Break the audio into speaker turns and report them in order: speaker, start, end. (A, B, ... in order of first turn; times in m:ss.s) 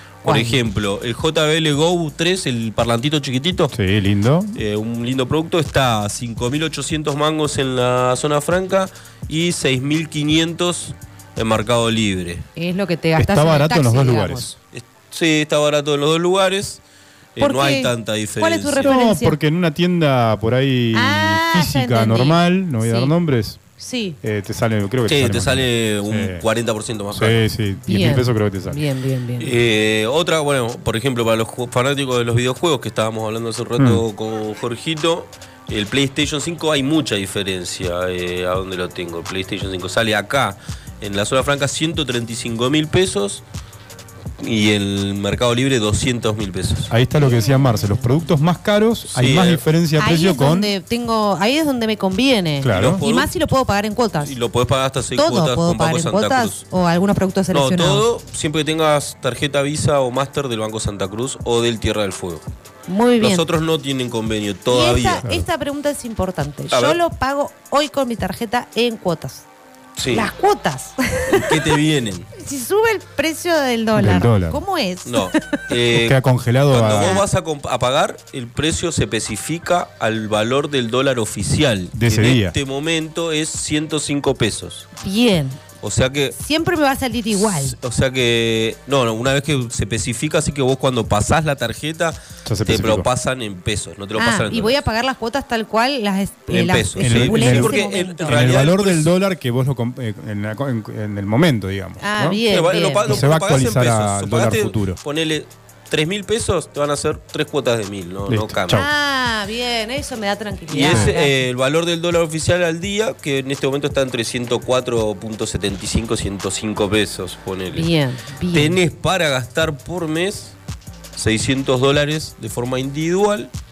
0:00.2-0:03.7 A
0:00.2-0:00.6 B
0:03.7-0:04.6 C
0:04.6-0:12.4 A
0:12.6-0:14.5 B
0:13.2-0:14.6 C
0:14.7-0:16.8 A
0:17.4-0:18.9 A
0:17.4-0:19.4 B
0:18.8-0:23.6 C
0:20.9-0:23.1 B
0:23.8-0:24.2 B
0:24.2-0:26.4 C
0:25.1-0:27.4 A
0:27.1-0:28.8 C
0:27.8-0:29.5 B
0:29.4-0:43.4 A
0:33.8-0:34.0 C
0:44.4-0:46.9 A
0:46.9-0:50.7 C
0:47.2-0:48.0 B
0:49.1-0:49.6 A
0:50.0-0:54.3 B
0:52.6-0:53.0 C
0:52.7-0:53.3 A
0:54.2-0:56.6 A
0:55.2-0:58.0 B
0:57.5-1:02.4 A
1:02.9-1:03.4 B
1:03.2-1:05.2 A
1:04.7-1:09.4 B
1:06.7-1:07.0 A
1:10.0-1:10.3 A
1:10.1-1:11.6 B
1:11.3-1:12.3 A
1:12.3-1:15.6 B
1:14.0-1:14.6 C
1:15.0-1:16.2 A
1:15.9-1:17.2 C
1:16.7-1:24.9 A
1:17.0-1:17.2 B
1:21.9-1:22.5 C
1:25.0-1:25.6 B
1:25.8-1:26.4 A
1:26.4-1:27.8 B
1:27.3-1:34.8 A
1:32.4-1:33.1 C
1:34.2-1:38.4 B
1:36.5-1:39.1 A
1:37.0-1:42.4 C
1:42.0-1:43.2 B
1:42.5-1:48.8 A
1:43.0-1:45.0 C
1:48.3-1:48.9 C
1:48.7-1:51.3 B
1:50.7-1:57.9 A
1:50.8-1:51.1 C
1:57.7-1:58.8 B
1:58.5-2:00.6 A
2:01.2-2:03.5 A